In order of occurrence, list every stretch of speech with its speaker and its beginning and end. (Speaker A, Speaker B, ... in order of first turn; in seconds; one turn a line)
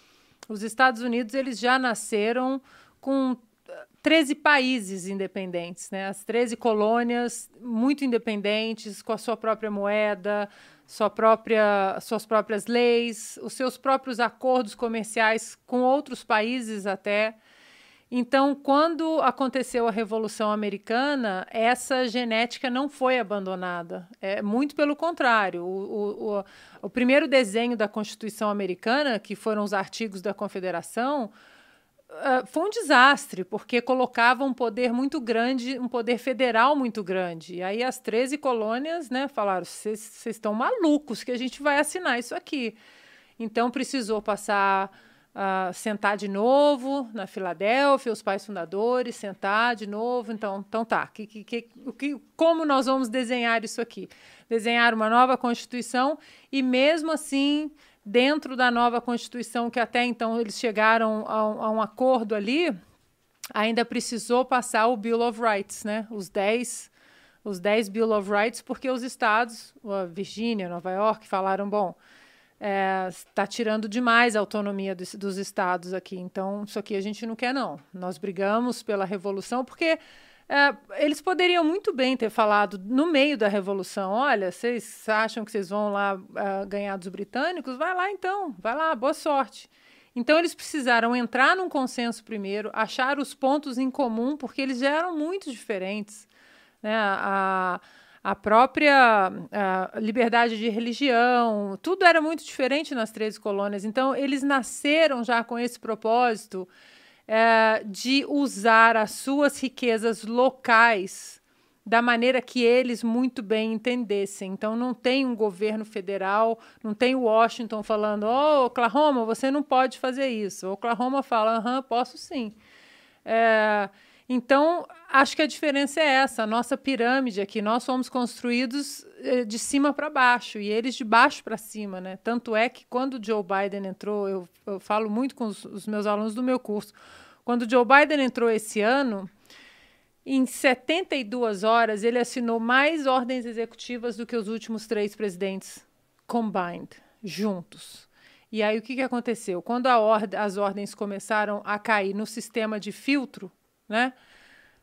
Speaker A: 0.5-3.5
Speaker A: 4.0-17.4
Speaker A: 18.1-31.3
Speaker A: 32.1-42.8
Speaker A: 43.4-62.7
Speaker A: 63.5-66.9
Speaker A: 67.4-72.0
Speaker A: 72.6-96.3
Speaker A: 96.8-106.7
Speaker A: 107.3-122.5
Speaker A: 123.2-139.3
Speaker A: 140.2-154.1